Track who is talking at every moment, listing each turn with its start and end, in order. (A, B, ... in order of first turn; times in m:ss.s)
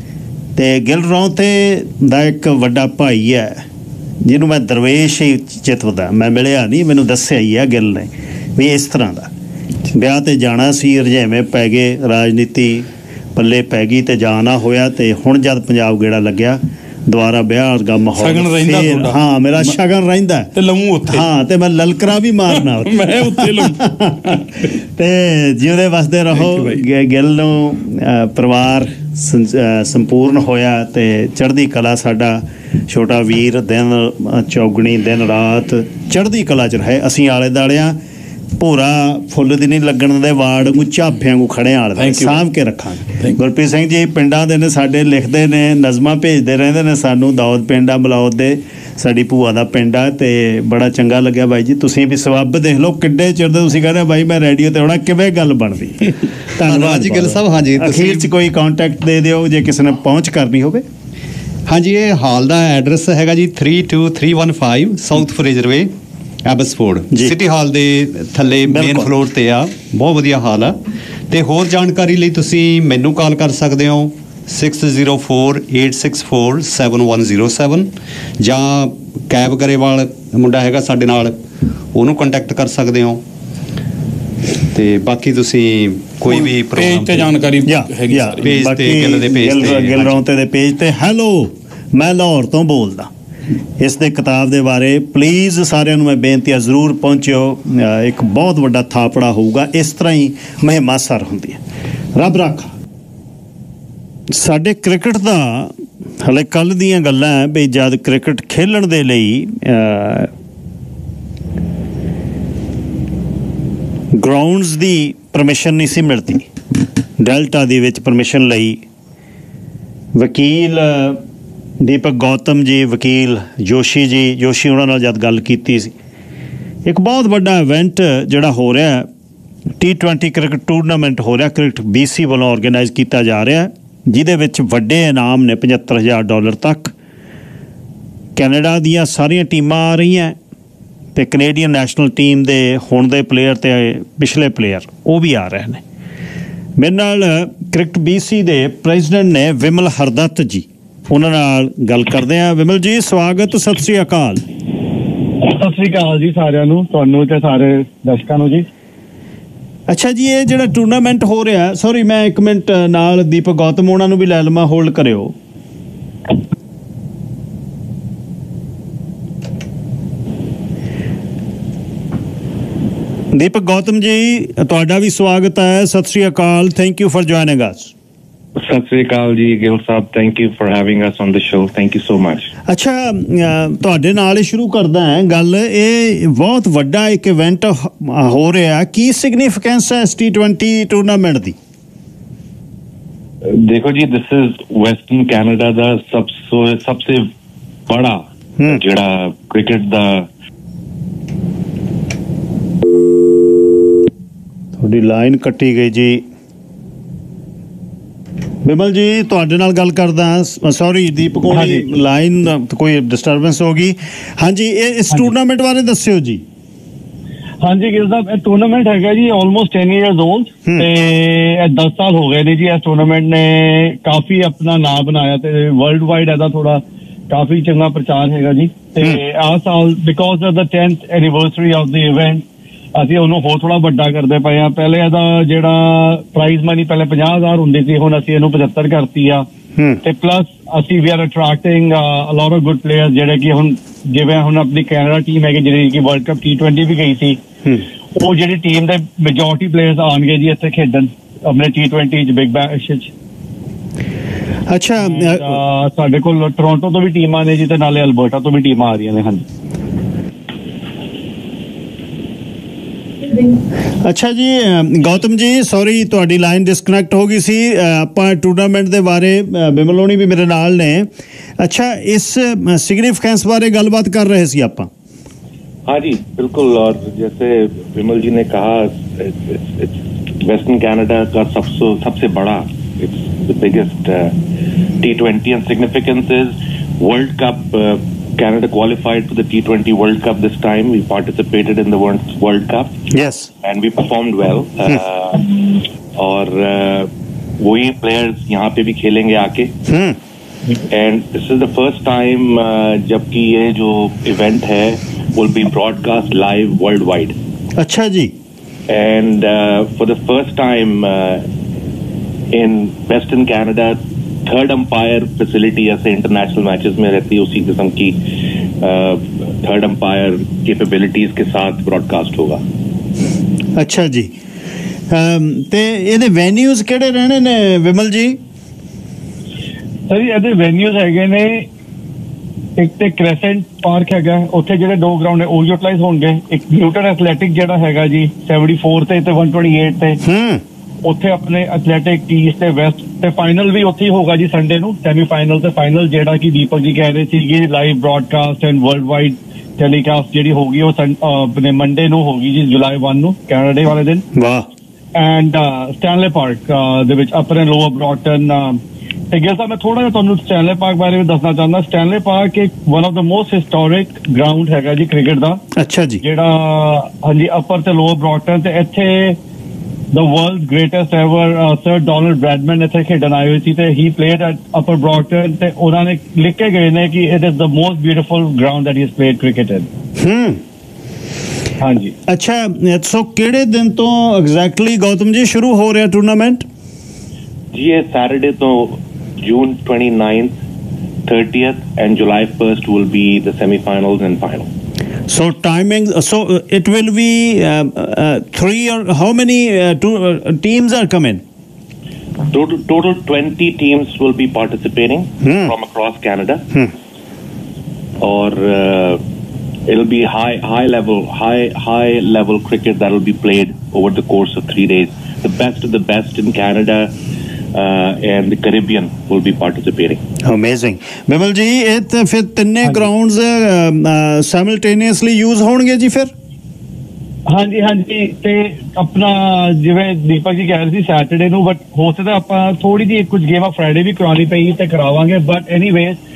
0:00.6-0:03.6 A
0:04.2-0:09.3 A
0:09.9-0:20.5 A
0:18.2-0:19.8 B
0:20.6-0:21.3 B
0:21.1-0:38.0 A
0:22.6-0:24.7 B
0:26.3-0:26.8 B
0:38.6-1:00.8 A
0:42.0-0:42.4 B
0:56.6-0:58.3 C
1:01.7-1:05.9 C
1:06.4-1:10.8 C
1:08.7-1:09.1 A
1:11.3-1:17.9 C
1:18.4-1:21.4 C
1:21.9-1:23.2 C
1:24.7-1:27.3 C
1:26.3-1:28.5 B
1:27.7-1:33.1 A
1:28.4-1:30.2 C
1:33.8-1:41.6 A
1:42.2-1:42.7 A
1:44.3-1:50.3 A
1:54.2-1:56.5 A
1:57.2-1:58.8 A
2:00.2-2:01.2 A
2:01.8-2:05.9 A
2:06.8-2:09.1 A
2:09.8-2:16.9 A
2:18.4-2:20.4 A
2:21.2-2:25.8 A
2:26.8-2:34.4 A
2:35.4-2:38.7 D
2:39.9-2:45.3 A
2:53.3-2:57.9 A
2:58.6-3:02.5 E
3:02.7-3:11.6 A
3:13.5-3:17.3 E
3:17.9-3:20.3 E
3:24.8-3:26.2 A
3:28.6-3:36.4 A
3:31.5-3:31.9 D
3:37.6-3:52.4 D
3:53.0-3:59.5 D
3:59.8-4:00.0 A
4:00.0-4:07.4 D
4:08.2-4:13.1 D
4:14.7-4:15.6 A
4:15.1-4:19.4 D
4:24.0-4:31.1 A
4:31.6-4:34.9 A
4:35.9-4:44.4 E
4:45.0-4:52.9 E
4:53.1-4:53.5 A
4:53.6-4:59.7 E
4:59.9-5:00.2 A
5:00.9-5:07.4 E
5:07.8-5:08.3 A
5:08.9-5:11.5 E
5:12.5-5:18.2 E
5:18.8-5:22.6 E
5:23.8-5:24.3 A
5:25.1-5:28.4 A
5:30.1-5:31.7 D
5:32.8-5:40.2 D
5:40.2-5:40.6 A
5:41.0-5:54.2 D
5:54.3-5:54.7 A
5:55.2-5:58.8 D
5:59.3-6:05.6 D
6:05.8-6:06.2 A
6:06.2-6:09.4 D
6:10.1-6:19.9 D
6:20.2-6:20.6 A
6:21.8-6:22.1 D
6:22.3-6:26.7 A
6:27.7-6:30.6 E
6:31.2-6:34.7 E
6:35.3-6:41.4 A
6:42.5-6:46.6 E
6:45.4-6:45.7 A
6:48.2-6:49.2 E
6:49.9-6:57.2 E
6:57.7-7:00.2 E
7:00.4-7:06.3 A
7:07.5-7:16.2 D